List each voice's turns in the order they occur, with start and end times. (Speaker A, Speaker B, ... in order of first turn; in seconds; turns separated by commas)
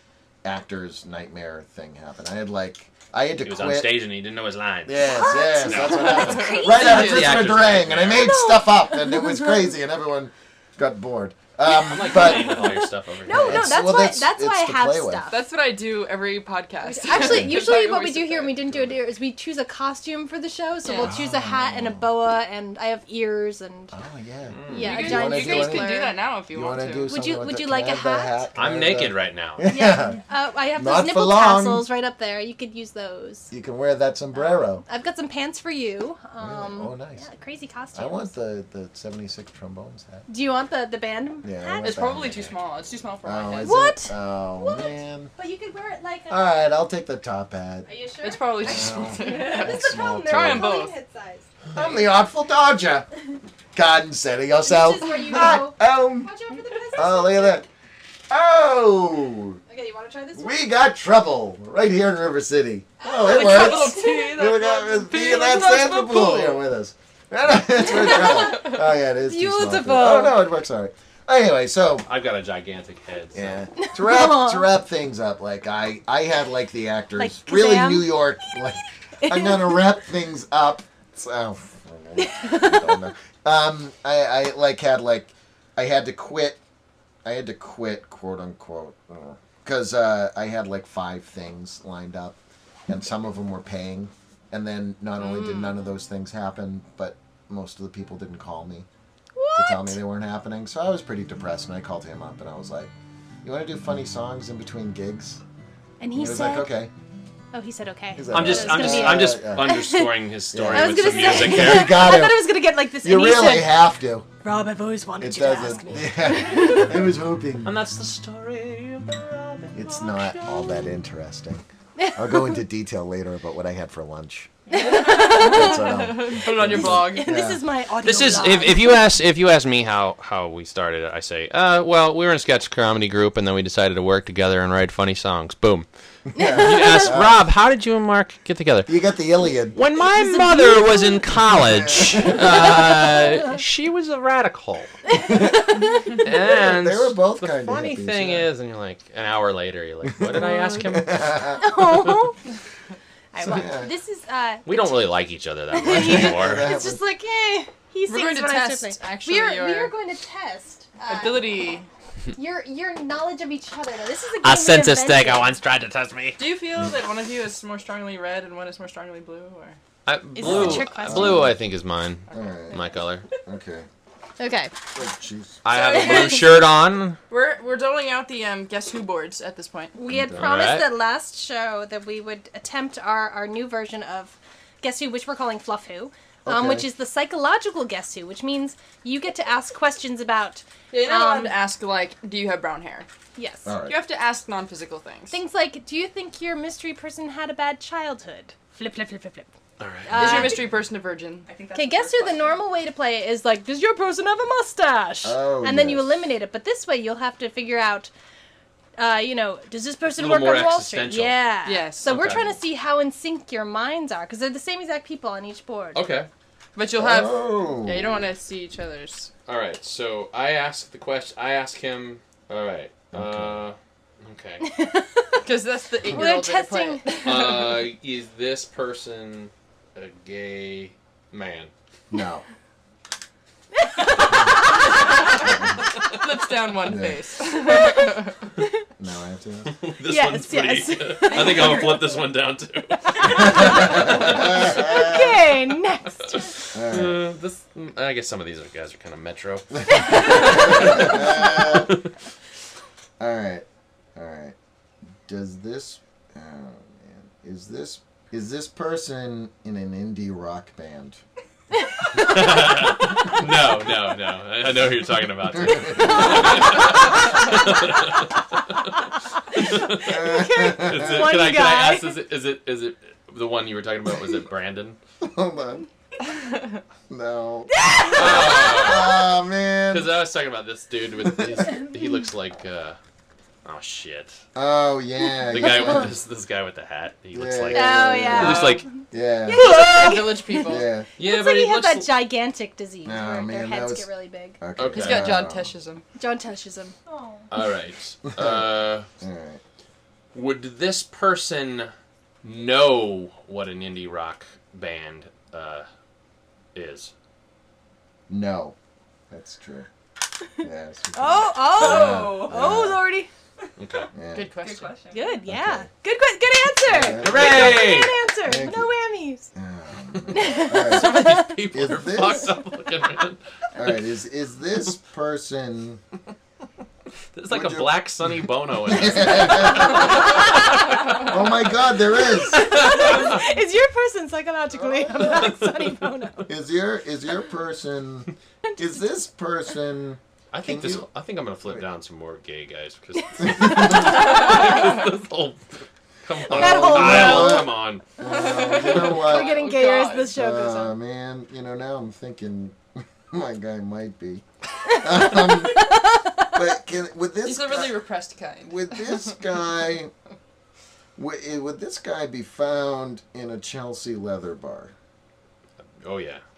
Speaker A: 0.4-4.0, Speaker B: 3.4-8.3, Speaker A: 4.9-12.8, Speaker C: 5.0-7.3, Speaker D: 6.1-7.2, Speaker C: 8.2-9.6, Speaker B: 11.7-13.8, Speaker C: 12.1-15.4, Speaker A: 13.3-15.3, Speaker D: 15.3-18.9, Speaker C: 16.8-24.0, Speaker A: 17.1-17.6, Speaker D: 20.9-21.1, Speaker A: 21.0-22.1, Speaker A: 23.9-26.0, Speaker B: 24.5-25.0, Speaker C: 24.7-26.2, Speaker D: 24.7-27.1, Speaker A: 26.5-30.2, Speaker C: 27.1-28.5, Speaker B: 28.6-29.7, Speaker C: 29.7-33.5, Speaker A: 30.8-31.9, Speaker A: 33.5-34.8, Speaker C: 34.3-38.3, Speaker A: 36.4-37.2, Speaker A: 37.9-40.3, Speaker C: 40.3-42.2, Speaker A: 41.4-42.6, Speaker D: 41.8-43.8, Speaker A: 43.2-45.3, Speaker C: 43.6-46.5, Speaker A: 46.3-47.9, Speaker C: 47.9-51.5, Speaker D: 48.2-50.9, Speaker A: 48.6-50.7, Speaker A: 51.7-53.1, Speaker A: 53.7-56.3, Speaker C: 54.6-57.6, Speaker A: 57.0-57.7, Speaker A: 58.3-59.6, Speaker C: 59.7-60.6, Speaker A: 60.4-72.1, Speaker D: 63.0-66.7, Speaker C: 63.1-64.4, Speaker C: 68.1-70.5, Speaker B: 72.0-73.6, Speaker A: 73.3-86.6, Speaker C: 73.8-74.7, Speaker C: 77.2-78.3, Speaker C: 79.2-79.8, Speaker C: 82.2-83.0, Speaker A: 87.2-92.4, Speaker A: 92.9-98.9, Speaker C: 95.2-95.7, Speaker C: 99.3-100.0, Speaker A: 99.6-102.9, Speaker A: 103.4-105.4, Speaker C: 106.0-106.7, Speaker A: 106.1-106.9, Speaker C: 107.5-113.9, Speaker A: 108.2-109.8, Speaker B: 108.3-112.0, Speaker A: 110.5-114.3, Speaker C: 114.4-117.0, Speaker A: 115.2-117.8, Speaker B: 117.6-120.6, Speaker A: 119.7-124.5, Speaker C: 124.7-125.9, Speaker D: 124.7-127.4, Speaker A: 125.0-127.6, Speaker C: 126.5-129.0, Speaker B: 128.0-135.9, Speaker A: 136.3-137.4, Speaker C: 136.3-137.1, Speaker B: 136.5-138.9, Speaker A: 138.9-139.8, Speaker B: 139.7-144.9, Speaker C: 140.0-141.2, Speaker A: 141.8-142.4, Speaker C: 145.2-146.1, Speaker A: 145.2-148.5, Speaker B: 146.2-151.5, Speaker A: 150.1-151.7, Speaker C: 151.6-152.4, Speaker C: 153.3-155.0, Speaker A: 153.4-153.9, Speaker B: 154.7-156.7, Speaker C: 155.7-161.6, Speaker A: 155.8-157.0, Speaker D: 158.1-159.9, Speaker D: 161.1-161.9, Speaker C: 162.3-165.5, Speaker B: 164.4-166.4, Speaker D: 166.4-169.8, Speaker B: 170.1-173.3, Speaker C: 170.4-171.5, Speaker A: 170.4-171.6, Speaker A: 172.3-172.8, Speaker A: 173.4-173.9, Speaker C: 174.4-174.7, Speaker A: 174.9-175.6, Speaker B: 175.6-177.2, Speaker D: 175.7-176.7, Speaker C: 175.8-176.5, Speaker D: 177.3-180.0, Speaker C: 179.9-191.6, Speaker A: 180.1-180.5, Speaker B: 180.3-180.9, Speaker A: 186.4-186.9, Speaker D: 190.9-193.1, Speaker C: 193.4-193.7, Speaker A: 193.7-194.0, Speaker D: 193.8-195.4, Speaker C: 195.3-199.5, Speaker B: 199.8-200.6, Speaker C: 200.1-200.8, Speaker D: 200.2-201.5, Speaker E: 201.5-202.7, Speaker C: 201.8-208.1, Speaker A: 205.2-206.2, Speaker C: 209.0-216.0, Speaker B: 210.2-211.4, Speaker D: 211.7-212.2, Speaker B: 212.0-212.5, Speaker B: 215.9-216.3, Speaker D: 216.8-219.3, Speaker A: 217.0-218.2, Speaker B: 219.5-224.7, Speaker A: 223.1-223.6, Speaker C: 224.6-225.4, Speaker D: 225.4-227.8, Speaker C: 226.1-227.5, Speaker B: 227.2-231.7, Speaker A: 232.1-232.4, Speaker C: 233.8-235.0, Speaker D: 236.1-238.3, Speaker A: 236.8-237.2, Speaker C: 237.6-238.7, Speaker A: 239.0-239.7, Speaker B: 239.8-244.8, Speaker C: 240.1-242.2, Speaker C: 242.9-246.5, Speaker A: 243.6-245.4, Speaker B: 246.3-252.0, Speaker A: 246.7-247.3, Speaker A: 249.9-251.9, Speaker C: 249.9-250.8, Speaker A: 253.2-253.7, Speaker A: 254.2-254.6, Speaker A: 255.3-261.2, Speaker C: 261.9-262.4, Speaker B: 262.1-268.4, Speaker A: 265.6-266.8, Speaker C: 266.3-266.8, Speaker C: 269.5-272.2, Speaker B: 269.6-270.2, Speaker A: 270.0-271.2, Speaker B: 270.7-275.0, Speaker A: 275.2-275.9, Speaker A: 277.1-280.2, Speaker C: 277.7-279.1, Speaker B: 278.1-279.2, Speaker B: 279.9-283.0, Speaker C: 281.6-281.9, Speaker B: 283.6-284.4, Speaker A: 284.6-286.1, Speaker B: 285.5-288.9, Speaker A: 287.3-289.8, Speaker C: 287.7-294.6, Speaker B: 289.6-290.1, Speaker D: 289.6-290.9, Speaker A: 290.6-291.1, Speaker B: 291.2-292.1, Speaker A: 293.0-294.1, Speaker A: 294.6-295.7, Speaker B: 294.8-295.4, Speaker D: 294.9-296.0, Speaker C: 296.2-297.5, Speaker B: 297.5-299.1, Speaker A: 298.4-298.7, Speaker A: 299.2-299.6, Speaker B: 300.3-301.9, Speaker B: 302.4-305.9, Speaker B: 306.8-307.1, Speaker A: 308.3-308.8, Speaker A: 309.3-309.9, Speaker A: 310.6-313.0, Speaker C: 311.1-313.3, Speaker E: 311.8-312.7, Speaker B: 313.8-314.1, Speaker A: 314.1-314.5, Speaker D: 314.3-315.0, Speaker E: 314.5-315.4, Speaker C: 315.1-319.5, Speaker A: 315.5-315.9, Speaker A: 316.9-318.9, Speaker B: 317.2-318.1, Speaker A: 319.6-322.5, Speaker C: 320.3-321.6, Speaker B: 320.4-323.4, Speaker A: 323.8-326.0, Speaker B: 327.4-331.3, Speaker A: 327.5-328.0, Speaker A: 328.9-333.1, Speaker C: 332.2-336.5, Speaker B: 332.6-333.3, Speaker A: 334.9-335.3, Speaker A: 336.5-341.1, Speaker B: 340.5-345.7, Speaker A: 343.4-344.2, Speaker C: 343.5-344.8, Speaker B: 346.2-348.1, Speaker A: 346.5-349.6, Speaker C: 346.5-347.7, Speaker D: 348.2-350.4, Speaker C: 348.9-351.0, Speaker A: 350.3-358.0, Speaker C: 355.0-356.4, Speaker D: 357.4-359.4, Speaker A: 358.6-360.1, Speaker A: 361.2-364.9, Speaker B: 366.0-366.4